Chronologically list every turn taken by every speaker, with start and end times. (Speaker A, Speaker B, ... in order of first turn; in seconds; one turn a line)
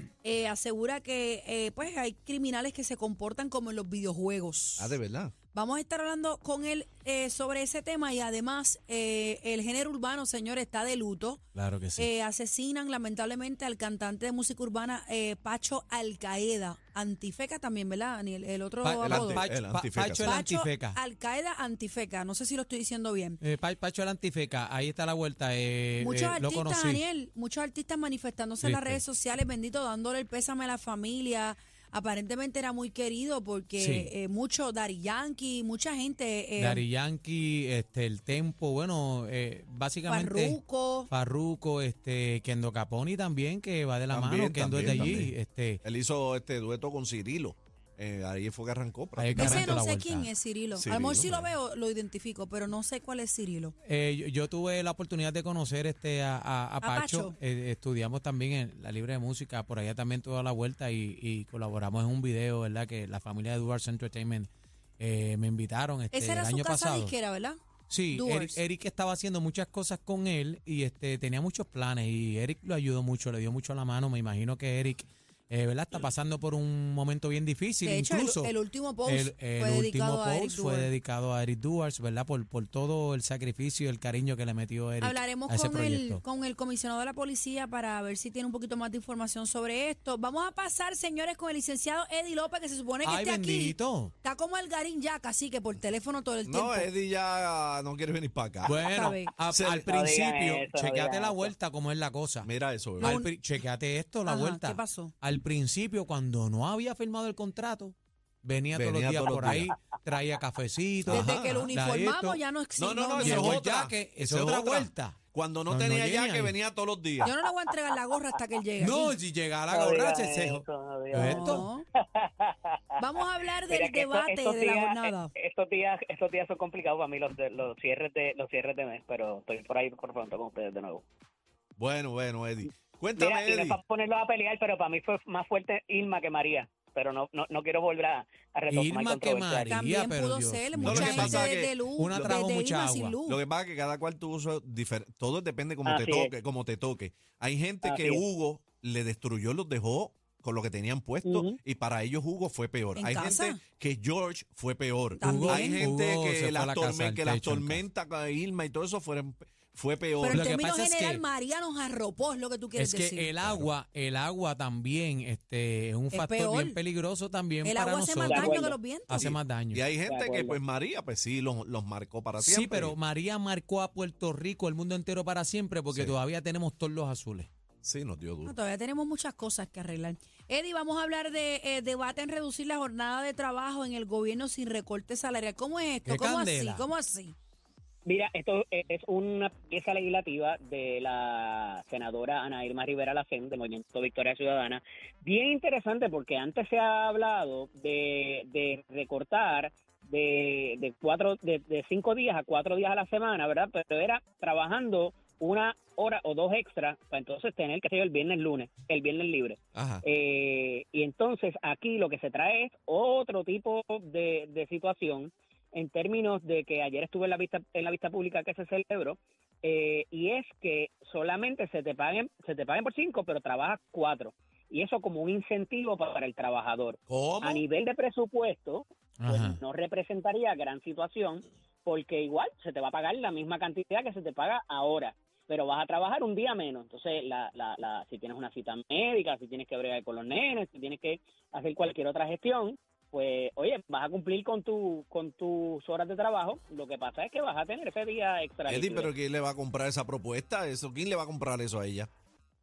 Speaker A: 0.2-4.9
Speaker B: 4.8-5.3
Speaker A: 5.5-11.4
Speaker C: 11.5-12.1
Speaker A: 12.0-19.4
Speaker C: 18.8-21.0
Speaker B: 19.0-20.4
Speaker A: 20.2-23.4
Speaker C: 23.4-27.0
Speaker A: 26.0-36.8
Speaker C: 28.6-29.0
Speaker C: 33.8-34.1
Speaker C: 36.6-40.6
Speaker A: 40.1-41.1
Speaker C: 41.1-45.8
Speaker B: 44.1-49.8
Speaker C: 49.2-50.3
Speaker A: 49.4-53.7
Speaker B: 50.7-51.5
Speaker C: 53.8-67.1
Speaker A: 56.8-57.3
Speaker A: 66.1-67.6
Speaker C: 67.9-78.5
Speaker A: 68.1-68.6
Speaker A: 77.8-80.9
Speaker C: 79.0-86.2
Speaker A: 85.0-96.9
Speaker C: 93.0-94.1
Speaker B: 96.4-99.9
Speaker C: 98.6-112.4
Speaker A: 98.8-99.3
Speaker D: 99.9-101.5
Speaker B: 102.4-103.2
Speaker A: 103.0-103.3
Speaker A: 104.3-105.1
Speaker B: 108.7-109.8
Speaker B: 111.0-111.7
Speaker A: 111.1-113.6
Speaker B: 112.8-117.3
Speaker C: 113.2-115.2
Speaker C: 115.7-116.6
Speaker A: 117.2-119.1
Speaker C: 118.8-121.7
Speaker D: 119.7-131.0
Speaker A: 121.1-121.8
Speaker A: 123.0-125.3
Speaker B: 131.8-133.8
Speaker D: 133.2-139.7
Speaker C: 138.7-143.1
Speaker A: 139.7-143.4
Speaker B: 140.8-142.3
Speaker B: 143.2-160.5
Speaker D: 145.8-146.3
Speaker D: 147.8-148.2
Speaker D: 151.2-151.6
Speaker A: 152.9-153.6
Speaker A: 155.2-155.8
Speaker C: 155.2-157.8
Speaker A: 160.2-163.3
Speaker C: 160.3-161.2
Speaker C: 162.8-169.8
Speaker B: 163.4-163.7
Speaker A: 166.1-166.8
Speaker A: 167.6-169.2
Speaker D: 168.2-168.8
Speaker B: 169.1-172.9
Speaker D: 170.1-170.6
Speaker C: 172.4-177.5
Speaker B: 177.8-178.6
Speaker A: 178.4-187.3
Speaker C: 186.1-186.8
Speaker D: 188.1-249.1
Speaker B: 209.7-210.0
Speaker B: 227.1-227.6
Speaker C: 229.2-229.6
Speaker B: 248.7-252.1